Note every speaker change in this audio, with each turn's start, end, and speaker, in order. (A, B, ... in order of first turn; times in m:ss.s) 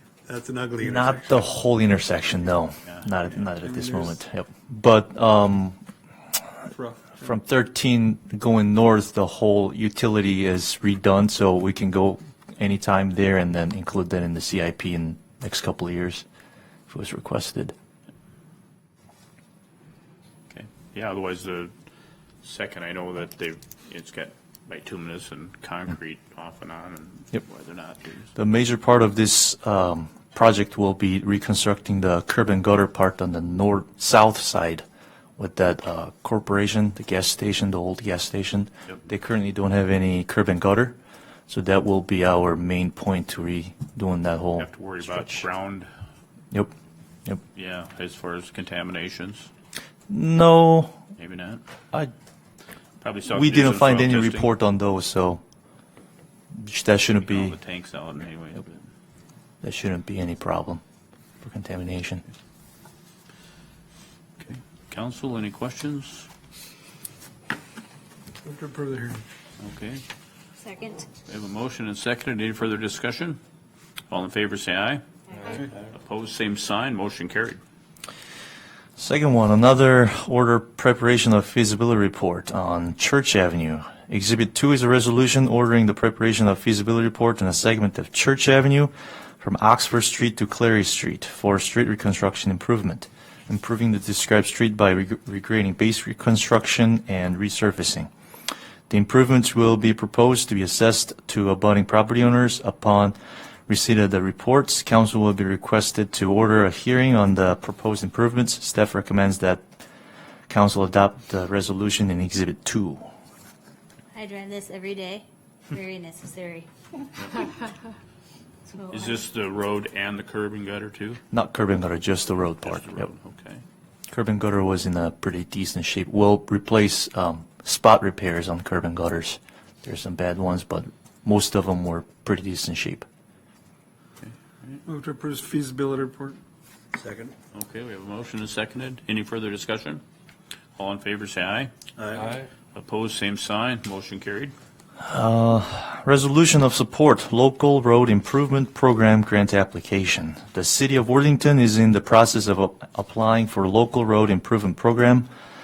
0:00.3-0:01.4 A
0:00.8-0:05.8 B
0:03.6-0:04.2 A
0:06.7-0:07.3 A
0:07.2-0:16.2 B
0:16.9-0:17.7 B
0:20.5-0:21.7 C
0:22.4-0:28.3 C
0:28.3-0:34.8 B
0:35.4-0:41.0 B
0:41.5-0:45.4 B
0:44.6-0:45.9 C
0:47.5-0:49.5 C
0:50.1-0:51.0 B
0:51.2-0:51.6 C
0:53.0-0:54.5 C
0:53.3-0:55.4 B
0:56.5-0:57.6 B
0:57.2-0:58.8 C
0:59.6-1:00.8 B
1:01.4-1:02.2 B
1:04.4-1:06.3 C
1:08.4-1:09.2 A
1:09.6-1:10.0 C
1:10.6-1:11.0 D
1:11.2-1:13.4 C
1:14.1-1:17.6 C
1:19.0-1:38.1 B
1:38.9-1:43.1 B
1:43.7-1:49.6 B
1:50.5-1:53.1 B
1:54.1-1:56.7 D
1:57.2-1:57.5 C
1:58.7-1:59.2 D
1:58.9-2:01.2 C
2:01.3-2:03.1 B
2:02.6-2:03.6 C
2:04.1-2:13.0 B
2:14.2-2:14.8 C
2:14.8-2:16.4 A
2:17.5-2:20.0 C
2:20.8-2:24.5 C
2:25.0-2:35.3 B